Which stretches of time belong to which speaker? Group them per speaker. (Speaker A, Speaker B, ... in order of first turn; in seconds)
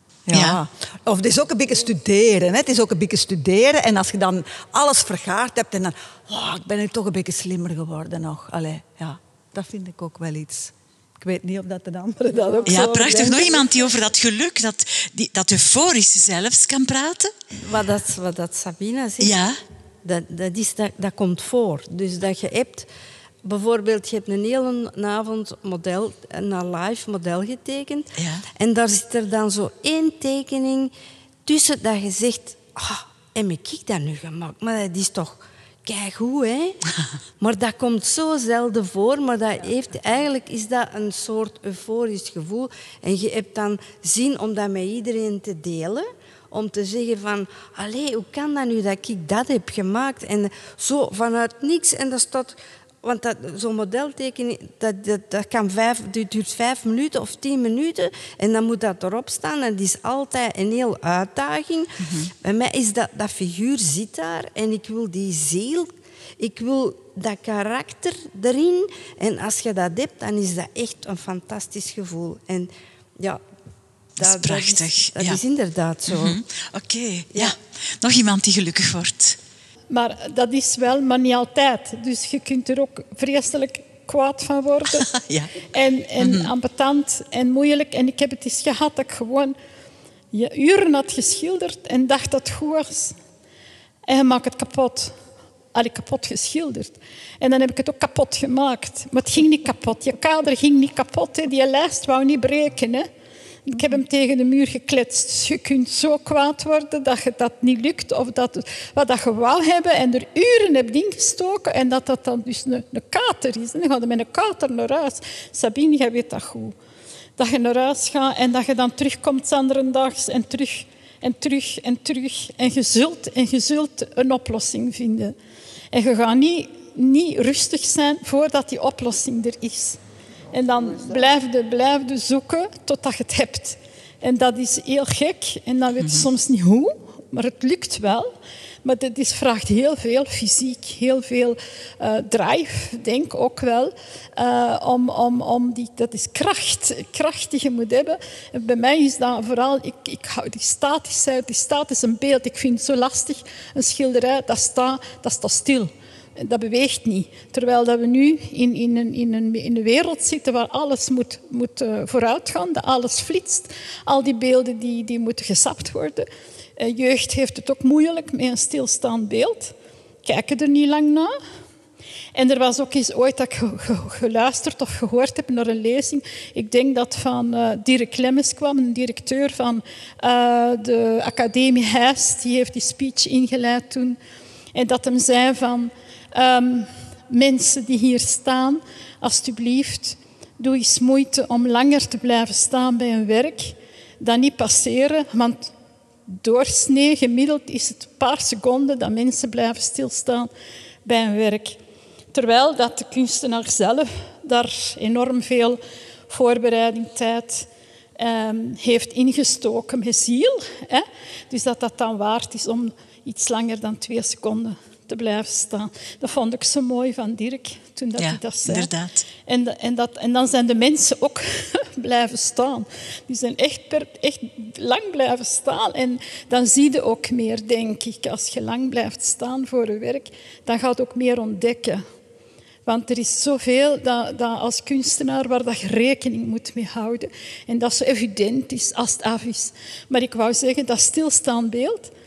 Speaker A: 0.3-13.7
Speaker B: 0.3-0.6, 12.7-17.3, 19.2-19.6, 28.2-28.4, 62.0-62.3, 74.2-75.4, 76.1-79.4, 84.9-85.5, 86.2-86.5, 136.0-136.3, 218.2-219.2
Speaker C: 12.7-13.0, 17.6-19.4, 20.0-22.9, 23.4-30.9, 31.4-36.8, 37.4-73.4, 74.2-76.4
Speaker D: 79.9-85.1, 85.7-89.5, 90.3-93.2, 94.1-95.2, 95.7-103.1, 103.7-116.8, 117.4-125.3, 125.9-130.0, 130.5-171.3, 172.3-184.2, 184.7-195.7, 196.3-200.5, 201.1-201.8, 202.3-218.9, 219.5-232.0, 232.9-242.1